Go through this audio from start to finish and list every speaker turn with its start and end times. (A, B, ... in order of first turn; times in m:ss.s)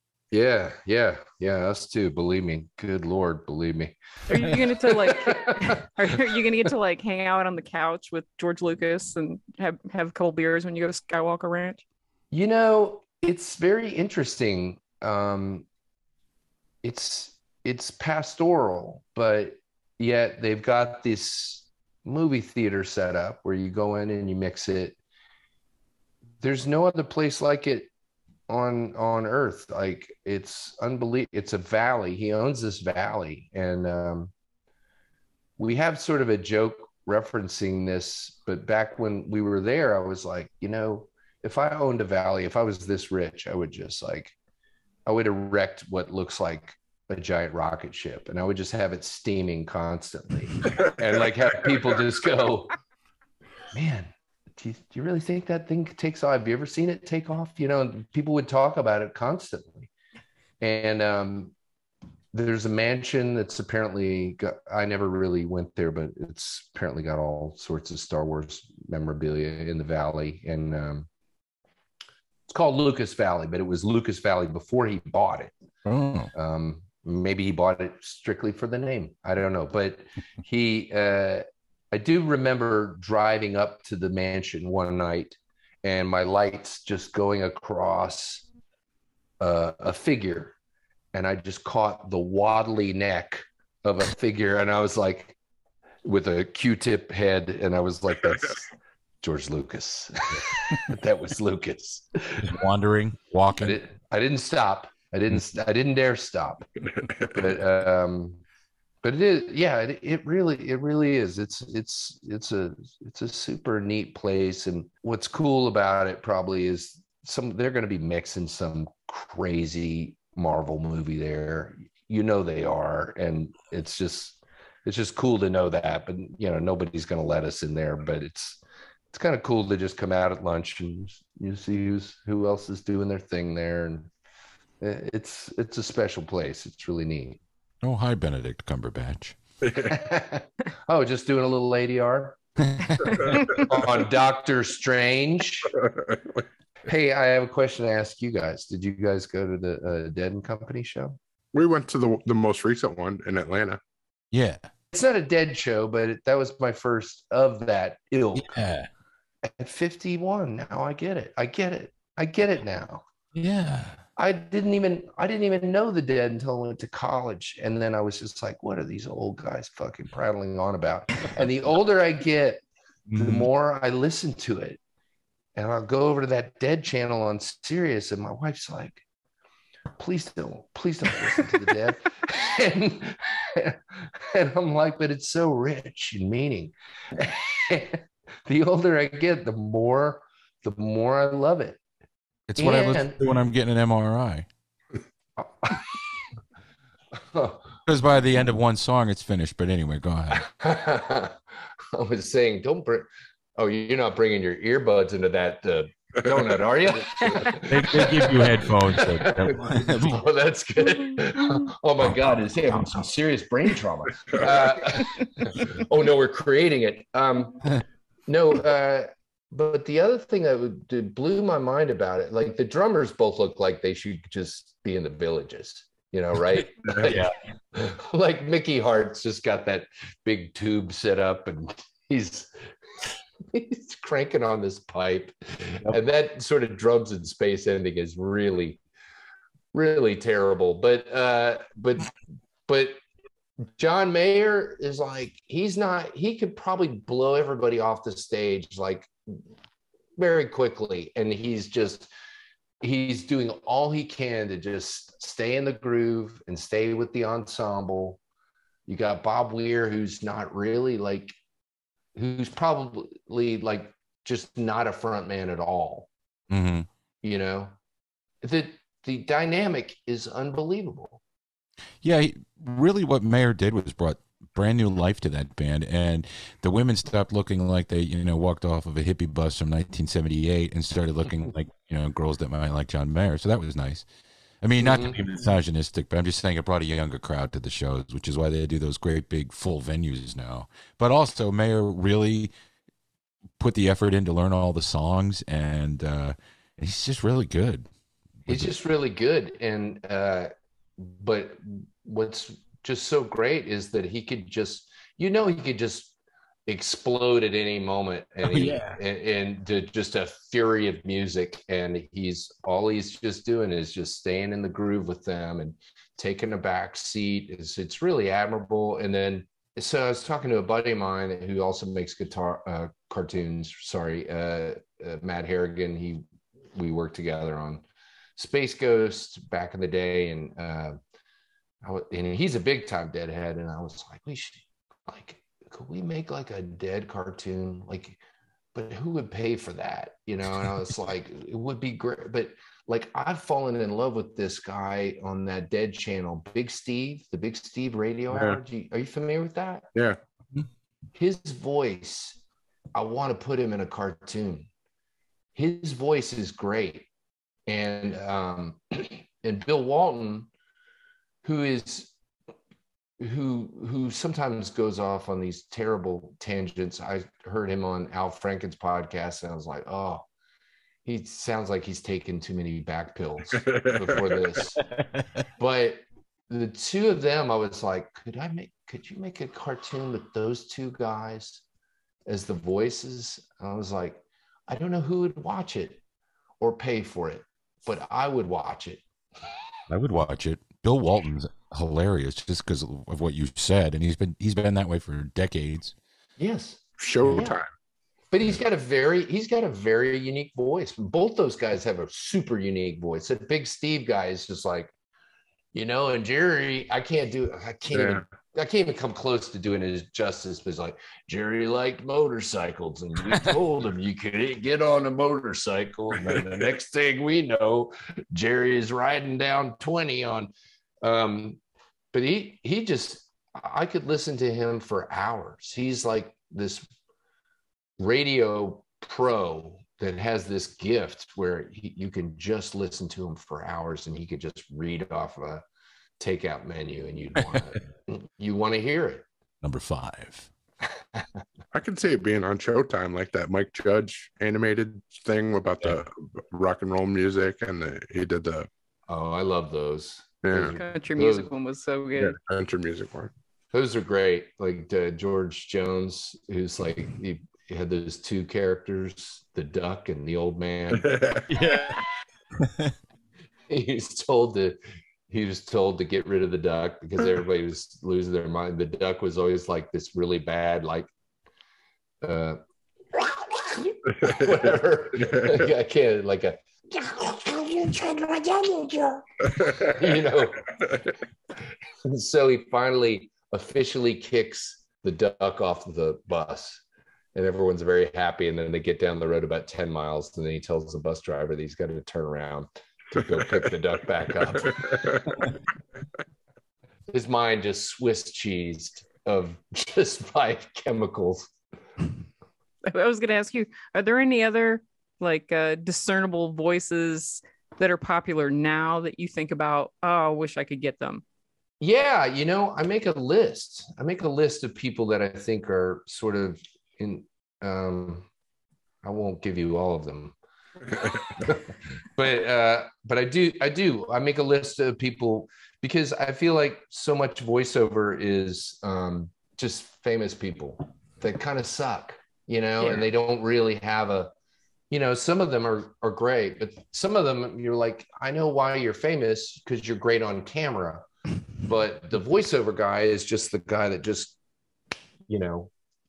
0:00.3-0:06.4 A
0:04.3-0:11.8 B
0:12.3-0:15.6 A
0:16.8-0:25.0 A
0:26.4-0:27.9 A
0:28.5-0:34.3 A
0:35.6-0:44.4 A
0:45.0-0:52.7 A
0:53.7-0:59.9 A
1:00.6-1:01.5 A
1:02.3-1:11.1 A
1:12.5-1:15.6 A
1:15.8-1:16.3 C
1:16.3-1:28.4 A
1:29.4-1:30.5 A
1:31.1-1:35.4 A
1:36.0-1:38.7 A
1:39.2-1:42.4 A
1:42.4-1:43.8 C
1:43.6-1:46.6 A
1:47.0-1:47.4 D
1:47.3-1:48.4 A
1:49.0-2:08.6 A
2:09.1-2:14.1 A
2:14.8-2:17.4 A
2:17.8-2:19.4 C
2:19.6-2:19.9 D
2:19.9-2:22.4 A
2:22.6-2:23.4 C
2:23.1-2:23.9 D
2:23.6-2:25.7 A
2:26.0-2:26.4 D
2:26.8-2:31.2 A
2:31.5-2:33.8 D
2:34.3-2:34.7 C
2:34.9-2:38.5 A
2:38.3-2:38.9 C
2:39.6-2:43.0 A
2:43.3-2:44.0 C
2:44.2-2:52.6 A
2:53.1-2:53.5 C
2:53.2-2:54.8 A
2:55.5-2:59.0 A
3:00.0-3:11.8 A
3:12.5-3:14.5 C
3:12.6-3:13.2 A
3:15.4-3:15.8 A
3:17.3-3:17.7 A
3:17.9-3:20.4 C
3:20.3-3:21.4 A
3:21.9-3:52.5 A
3:27.6-3:30.2 C
3:32.0-3:32.8 C
3:34.3-3:34.6 D
3:47.0-3:47.4 C
3:53.5-3:58.8 A
3:59.7-4:02.1 A
4:02.7-4:03.0 A
4:03.6-4:09.1 A
4:10.2-4:12.1 A
4:12.8-4:18.2 A
4:18.9-4:21.3 A
4:22.1-4:26.1 A
4:26.5-4:26.9 C
4:27.2-4:27.7 A
4:28.4-4:31.2 A
4:32.0-4:44.0 C
4:44.6-4:52.5 C
4:44.8-4:45.2 A
4:53.6-4:57.9 C
4:58.5-4:58.7 C
4:58.5-5:27.8 A
5:08.4-5:09.0 C
5:28.4-5:31.0 A
5:31.8-5:38.2 A
5:38.7-5:49.9 A
5:48.3-5:48.6 D
5:51.1-5:52.4 A
5:52.9-5:54.7 A
5:55.5-5:57.1 A
5:57.7-6:00.5 A
6:01.4-6:02.2 A
6:03.2-6:10.3 A
6:11.0-6:14.8 A
6:13.5-6:14.7 D
6:15.6-6:21.6 A
6:22.2-6:26.0 A
6:26.6-6:29.0 A
6:29.9-6:35.9 C
6:36.4-6:37.6 A
6:37.0-6:37.7 D
6:37.2-6:37.5 C
6:38.3-6:44.9 A
6:45.7-7:01.6 A
6:47.9-6:48.2 D
7:02.1-7:06.9 A
7:08.0-7:15.6 A
7:16.2-7:19.2 A
7:19.6-7:20.5 C
7:21.7-7:28.7 D
7:29.1-7:31.5 A
7:30.4-7:30.8 D
7:30.5-7:32.3 B
7:32.2-7:33.3 D
7:33.7-7:41.1 A
7:40.9-7:42.0 D
7:41.5-7:41.9 C
7:42.6-7:42.9 C
7:43.7-7:51.1 A
7:52.2-7:52.6 A
7:53.1-8:00.6 A
7:54.1-7:55.7 D
7:59.5-8:00.1 D
8:02.0-8:06.8 A
8:07.3-8:15.2 A
8:13.2-8:13.6 D
8:14.5-8:15.4 D
8:17.1-8:21.5 A
8:22.8-8:31.2 B
8:31.8-8:38.3 A
8:39.0-8:40.4 A
8:40.9-8:41.5 D
8:41.4-8:54.3 A
8:54.9-9:01.0 A
9:01.6-9:04.4 A
9:05.3-9:05.7 A